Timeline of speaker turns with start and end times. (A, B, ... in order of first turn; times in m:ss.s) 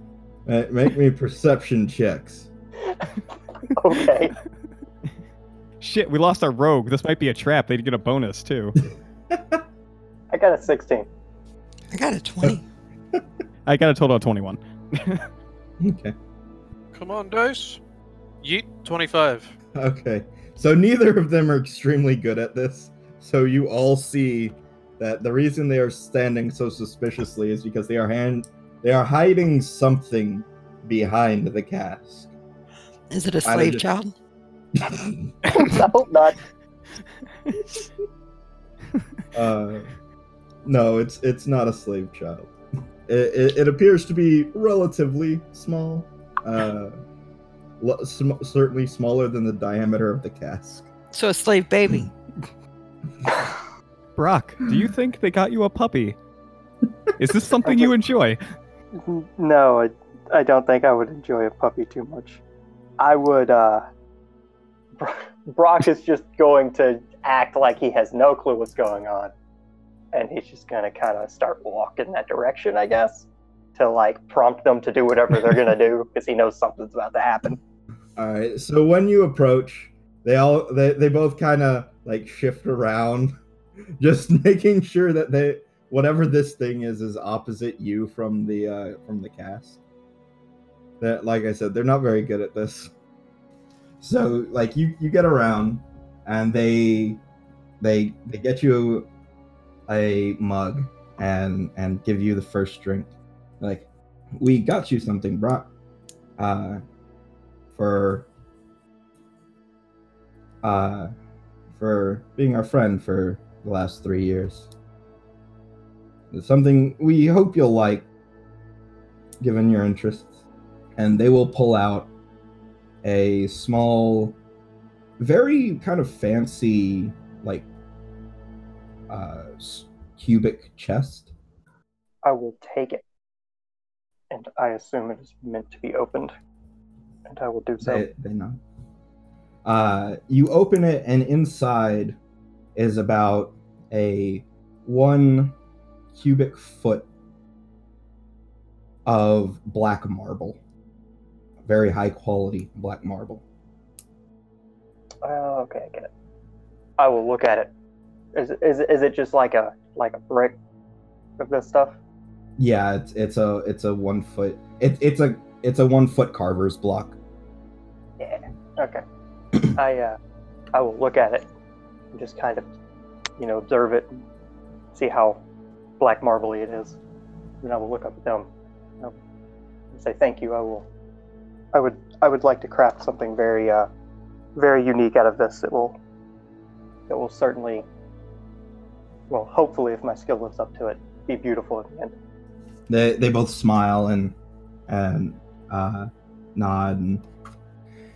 0:00.5-0:02.5 A
0:03.7-0:04.3 B
0:05.8-0:08.8 C
0:09.3-0:09.6 A
0:10.3-0:11.1 B
0:11.9-0:12.6 D
0:13.7-0:15.3 C
0:15.8-0:16.2 A
0:16.9-0:17.8 E
0:18.4-0:19.5 E
0:19.7-0:32.3 A
0:33.1-0:34.1 D
0:33.4-0:33.8 A
0:34.8-0:35.3 A
0:35.5-0:36.4 B
0:39.3-0:39.9 A
0:40.6-0:42.5 A
0:43.1-0:47.0 A
0:47.8-0:50.9 A
0:51.1-0:52.1 D
0:54.2-0:56.2 C
0:57.2-0:58.4 C
0:57.6-0:57.9 B
0:59.0-1:02.4 B
1:03.0-1:03.8 B
1:05.0-1:09.3 B
1:10.1-1:17.6 B
1:18.2-1:23.3 A
1:24.0-1:29.8 A
1:31.0-1:32.9 A
1:34.0-1:37.2 A
1:37.8-1:39.1 A
1:39.9-1:45.7 A
1:46.4-1:46.8 A
1:47.7-1:48.3 A
1:50.6-1:51.1 A
1:51.7-1:54.7 A
1:56.3-1:58.1 A
1:59.4-2:00.4 A
2:01.0-2:02.1 A
2:03.0-2:04.4 A
2:05.2-2:07.7 A
2:09.1-2:11.3 A
2:12.2-2:13.0 B
2:14.3-2:16.3 B
2:17.3-2:18.1 B
2:17.8-2:18.6 A
2:19.6-2:22.2 A
2:22.8-2:25.6 A
2:26.1-2:27.1 A
2:29.1-2:30.6 A
2:31.6-2:33.4 A
2:35.2-2:36.1 B
2:37.0-2:37.7 B
2:38.4-2:40.6 B
2:41.4-2:42.0 B
2:42.6-2:47.2 A
2:48.2-2:49.0 B
2:49.8-2:50.2 B
2:50.7-2:51.5 B
2:52.1-2:52.6 B
2:53.4-2:54.1 B
2:54.9-2:55.4 B
2:56.0-2:57.0 B
2:57.6-2:58.5 B
2:59.9-3:00.9 B
3:01.7-3:03.9 B
3:04.6-3:06.0 B
3:07.1-3:07.9 B
3:09.3-3:12.2 B
3:12.9-3:14.4 A
3:14.9-3:17.2 A